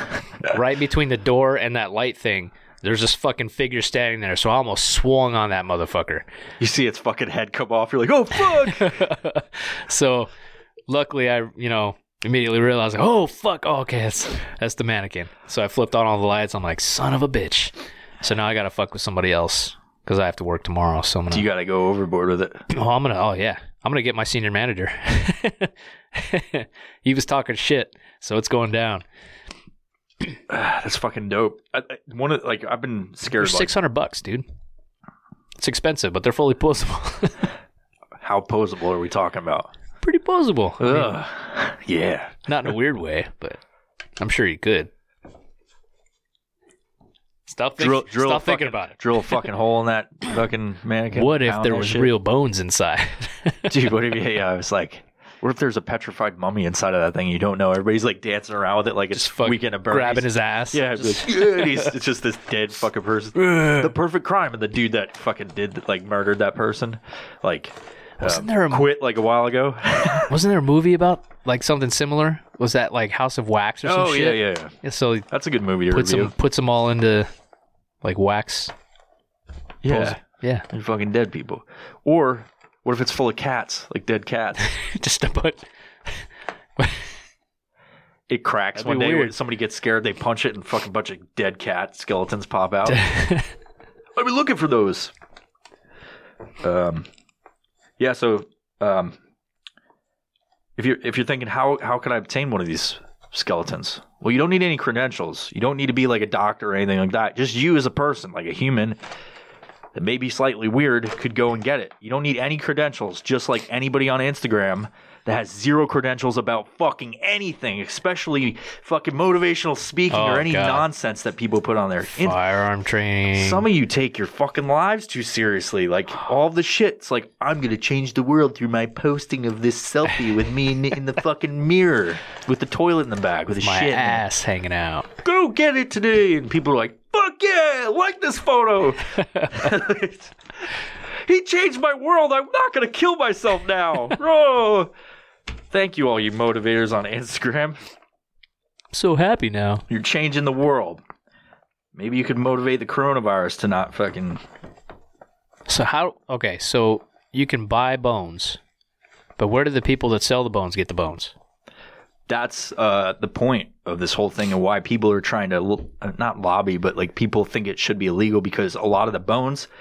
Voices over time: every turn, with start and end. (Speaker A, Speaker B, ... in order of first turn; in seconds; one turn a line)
Speaker A: 0.4-6.3
Speaker B: 6.6-9.0
Speaker A: 8.7-10.3
Speaker A: 10.9-21.5
Speaker B: 21.3-22.7
Speaker A: 22.7-29.1
Speaker B: 30.5-33.8
Speaker A: 33.4-34.5
Speaker A: 35.6-37.4
Speaker B: 38.2-39.7
Speaker A: 40.0-41.1
Speaker B: 40.8-42.4
Speaker A: 42.5-43.6
Speaker A: 44.2-44.9
Speaker A: 47.5-49.4
Speaker B: 47.8-52.1
Speaker A: 51.1-53.8
Speaker B: 53.7-70.3
Speaker A: 59.1-61.9
Speaker A: 63.4-63.9
Speaker A: 68.2-68.9
Speaker A: 70.3-75.3
Speaker B: 73.8-74.8
Speaker B: 75.3-76.3
Speaker A: 75.9-77.3
Speaker A: 78.0-78.7
Speaker B: 79.8-84.7
Speaker A: 79.9-80.7
Speaker A: 84.6-85.7
Speaker A: 86.8-87.1
Speaker B: 88.3-93.0
Speaker A: 88.8-89.4
Speaker A: 92.9-93.5
Speaker B: 94.2-95.1
Speaker B: 96.6-97.1
Speaker B: 98.0-99.2
Speaker B: 100.8-109.0
Speaker B: 109.9-122.4
Speaker A: 120.1-120.9
Speaker A: 122.1-123.7
Speaker B: 123.3-134.2
Speaker A: 133.6-135.1
Speaker B: 135.2-140.3
Speaker A: 139.2-139.5
Speaker B: 141.2-144.9
Speaker B: 145.7-147.8
Speaker A: 148.9-149.8
Speaker B: 149.9-151.0
Speaker B: 151.9-154.4
Speaker A: 155.7-158.6
Speaker A: 159.4-161.3
Speaker B: 162.3-169.7